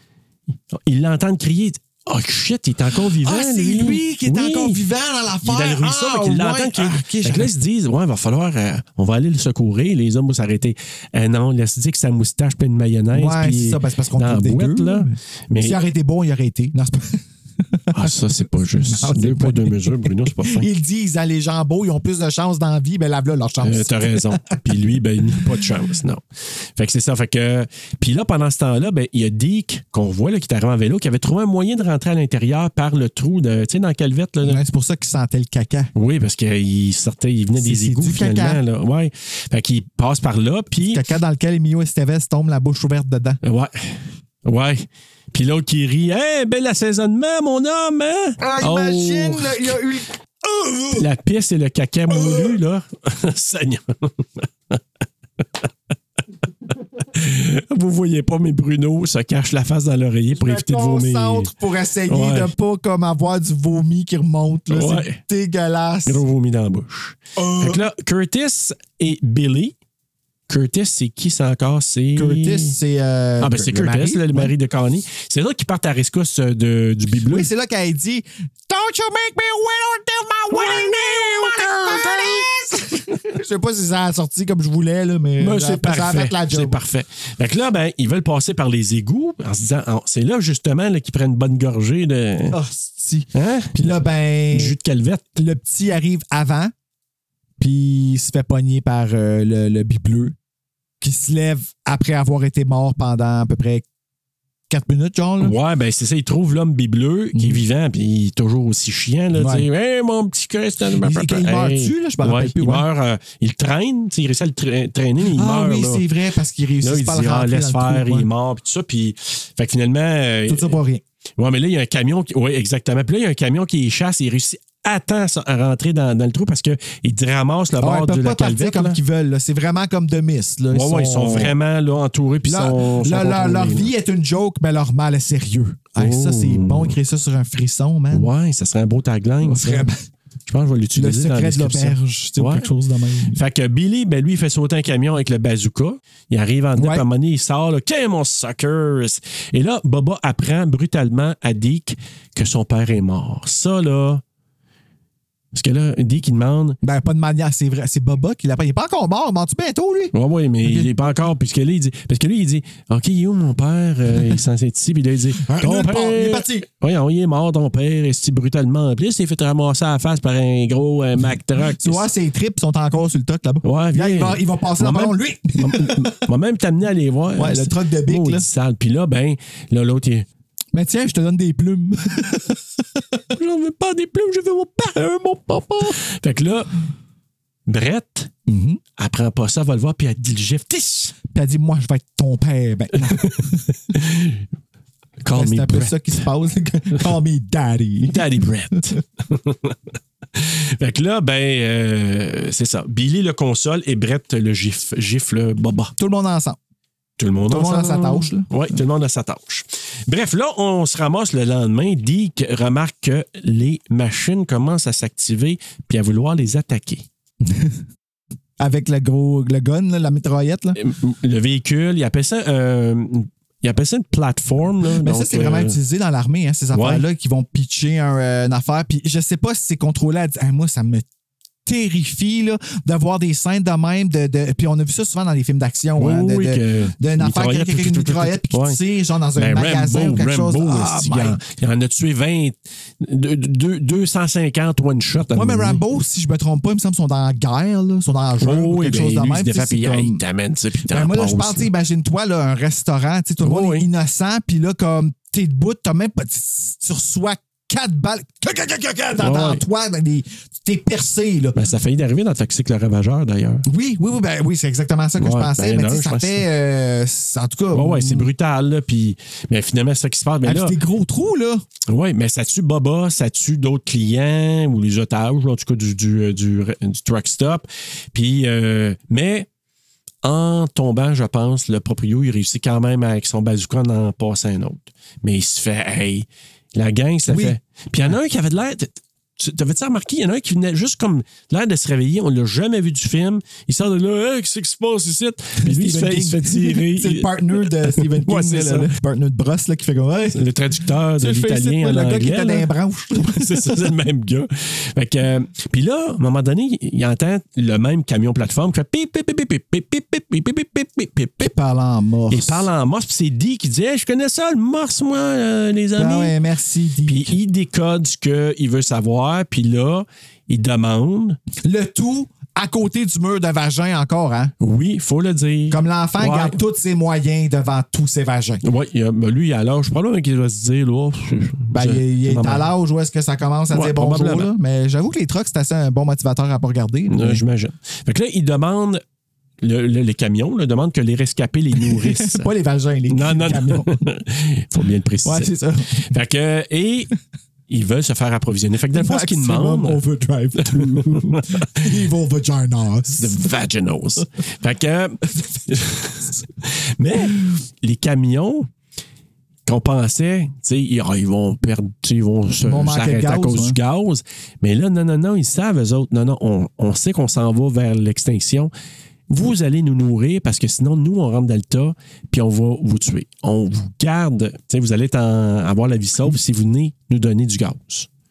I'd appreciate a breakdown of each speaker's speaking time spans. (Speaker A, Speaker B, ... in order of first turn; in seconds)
Speaker A: 0.7-4.8, 5.4-15.8, 17.9-20.7, 23.6-26.2, 26.8-34.6, 35.9-41.0, 43.4-49.8, 50.9-54.8, 57.0-61.5, 62.1-62.5, 64.7-65.2, 66.0-69.7, 70.5-72.8, 73.4-77.5, 80.5-82.5, 85.4-92.6, 93.3-93.9, 94.5-95.2, 105.4-116.0, 116.8-120.8, 121.4-129.0, 130.7-133.9, 136.0-137.0, 138.1-139.9, 140.5-142.7, 143.3-154.2, 155.5-156.8, 160.1-172.1, 173.6-180.3, 183.3-185.0, 185.8-186.7, 187.7-188.3, 189.0-191.2, 192.9-194.4, 195.2-196.2, 198.1-199.8, 200.3-205.9, 207.2-217.1, 220.8-225.8, 226.7-227.0, 236.0-238.8, 239.3-245.8, 248.4-251.7, 253.4-253.9, 259.2-259.6, 261.5-263.6, 265.2-266.4, 267.7-270.8, 271.9-279.5, 280.2-298.9, 300.3-311.5, 312.3-316.3, 317.1-321.4, 324.6-326.6, 328.6-332.7, 333.7-334.5, 337.1-339.0, 339.6-342.5, 343.1-347.1, 347.7-350.0, 350.6-351.9, 353.1-358.7, 359.6-368.7, 369.3-378.1
Speaker B: 3.2-7.5, 13.1-24.6, 34.4-35.9, 37.5-38.6, 40.8-43.4, 48.4-51.1, 52.1-52.6, 60.3-66.2, 67.3-67.8, 72.1-74.5, 77.2-86.8, 92.5-94.8, 95.3-96.7, 97.6-100.3, 101.0-103.8, 104.7-105.5, 107.3-107.6, 109.3-109.7, 110.9-112.9, 115.2-118.3, 120.5-121.0, 127.8-131.5, 132.4-138.3, 139.4-140.0, 140.9-143.4, 146.8-147.0, 156.8-161.2, 165.4-166.7, 171.8-176.1, 177.4-178.4, 180.7-183.0, 184.9-186.0, 188.5-188.8, 191.3-193.6, 195.3-198.2, 206.0-206.6, 207.5-208.8, 217.4-217.8, 218.6-220.8, 225.0-231.1, 231.7-241.4, 245.3-250.2, 250.9-261.6, 263.6-268.3, 270.4-271.6, 287.3-287.6, 295.6-300.4, 301.1-303.8, 311.4-312.7, 315.9-317.3, 321.6-324.5, 325.7-328.6, 331.7-337.4, 341.8-344.0, 345.2-346.1, 348.9-353.5, 362.6-363.8